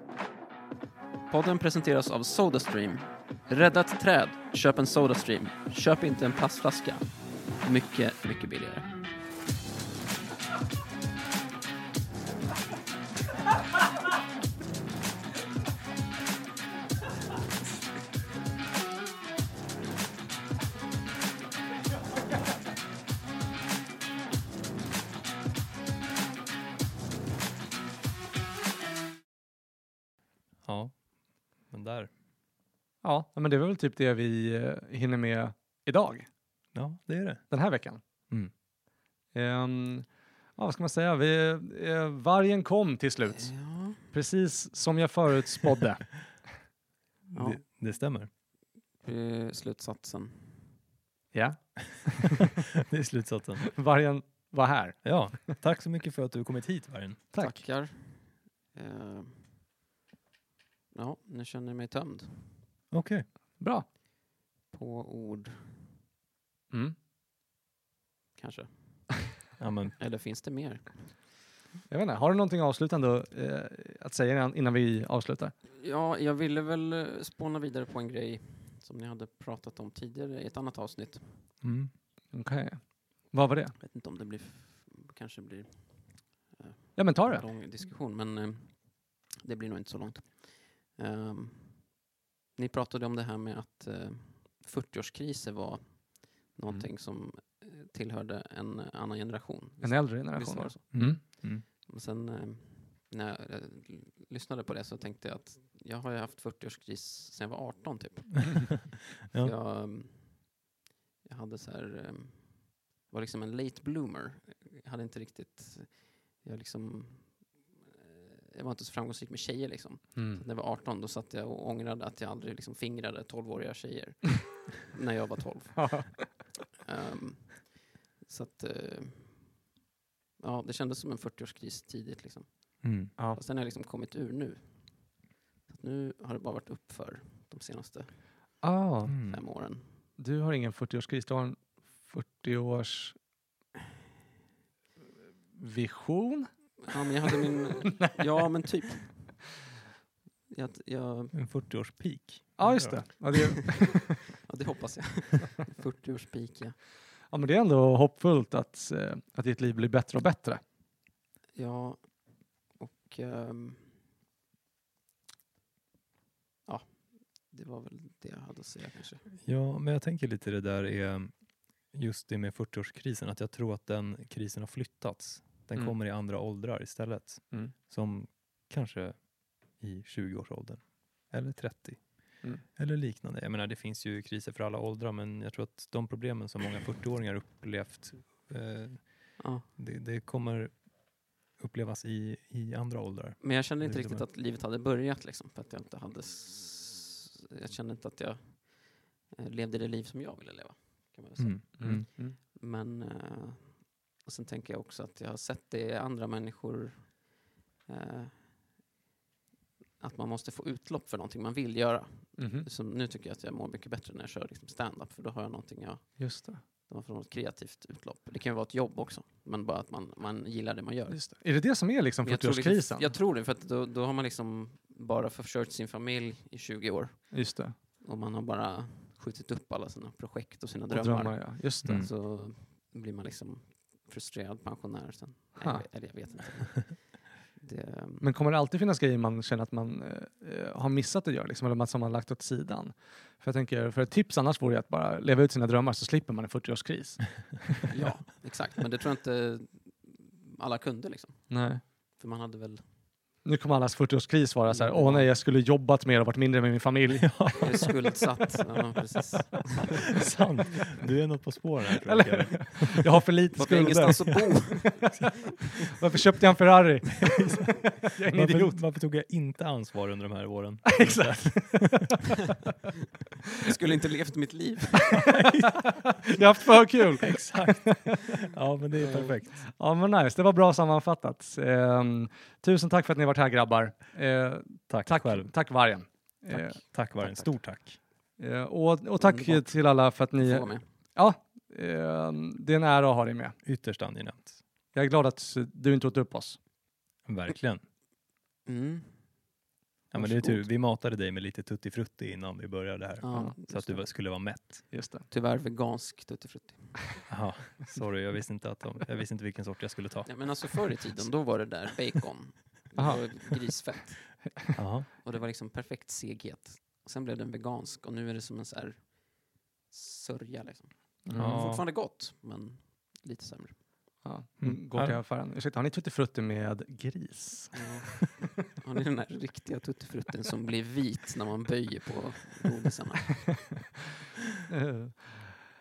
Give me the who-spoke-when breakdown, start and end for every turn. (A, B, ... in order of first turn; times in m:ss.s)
0:01.3-0:07.0 A
0:07.6-0:08.9 A
0:30.6-0:31.0 B
0:31.7-0:32.1 B
0:33.0-0:36.3 C
0:36.7-0:37.5 B
0:37.5-0:38.0 C
0:39.3-0:46.3 C
0:43.3-0:44.1 A
0:47.3-0:48.3 B
0:47.3-0:47.6 A
0:49.0-0:50.7 A
0:51.3-0:52.4 C
0:52.8-0:53.7 B
0:53.7-0:55.5 C
0:55.0-0:57.3 B
0:57.3-0:57.6 C
0:57.3-0:59.6 A
1:00.9-1:02.7 A
1:02.9-1:03.3 B
1:03.6-1:03.8 C
1:04.7-1:05.9 A
1:06.7-1:07.0 C
1:08.4-1:09.1 A
1:09.6-1:10.0 B
1:10.0-1:11.3 A
1:11.9-1:15.5 C
1:15.8-1:21.5 A
1:21.6-1:21.9 B
1:22.3-1:23.8 C
1:23.8-1:32.0 A
1:27.0-1:27.4 C
1:32.6-1:50.6 A
1:39.8-1:41.2 C
1:40.9-1:41.6 B
1:49.3-1:49.5 B
1:51.2-2:09.6 A
2:00.1-2:00.4 C
2:05.8-2:06.2 C
2:10.4-2:18.6 A
2:12.8-2:13.1 B
2:18.6-2:19.2 C
2:19.0-2:19.4 B
2:19.2-2:20.0 A
2:20.2-2:23.2 C
2:25.6-2:26.9 C
2:26.8-2:29.4 A
2:30.5-2:31.4 A
2:31.3-2:33.1 B
2:32.6-2:34.2 C
2:34.4-2:36.8 A
2:37.3-2:40.6 C
2:41.6-2:44.0 A
2:46.6-2:49.2 A
2:49.4-2:51.4 B
2:51.9-3:14.2 B
3:09.4-3:09.7 A
3:13.4-3:28.7 A
3:21.4-3:22.1 B
3:21.8-3:22.4 C
3:30.0-3:41.3 A
3:32.4-3:32.7 C
3:36.2-3:36.6 C
3:41.1-3:43.1 C
3:42.2-3:58.3 A
3:47.3-3:47.8 C
3:50.9-3:52.0 C
3:51.8-3:52.1 B
3:55.6-3:55.9 C
3:58.2-4:07.8 C
4:07.9-4:12.9 A
4:11.5-4:11.8 C
4:13.4-4:17.5 C
4:14.6-4:15.3 A
4:17.2-4:18.6 B
4:17.6-4:20.1 A
4:20.2-4:22.9 B
4:22.0-4:28.8 C
4:23.6-4:25.2 A
4:28.0-4:32.2 B
4:30.8-4:32.2 C
4:33.6-4:35.4 A
4:35.3-4:38.1 C
4:35.3-4:35.7 B
4:37.2-4:39.6 B
4:39.0-4:39.3 A
4:39.7-4:46.8 C
4:44.9-4:45.5 B
4:46.5-4:48.0 B
4:47.2-4:47.5 A
4:48.4-4:53.6 C
4:49.2-4:49.8 A
4:50.3-4:50.8 A
4:53.6-4:54.6 B
4:54.9-4:56.6 C
4:57.2-4:57.8 B
4:58.6-4:59.4 A
5:00.1-5:04.9 B
5:00.2-5:00.5 C
5:00.2-5:00.5 A
5:03.2-5:04.0 A
5:04.9-5:05.2 C
5:05.3-5:07.2 A
5:07.3-5:11.3 B
5:10.2-5:14.5 A
5:13.0-5:13.6 C
5:14.7-5:15.1 B
5:15.2-5:23.8 A
5:21.2-5:21.8 C
5:21.3-5:21.8 B
5:24.2-5:28.2 C
5:24.6-5:25.2 B
5:27.7-5:33.6 A
5:34.7-5:35.5 C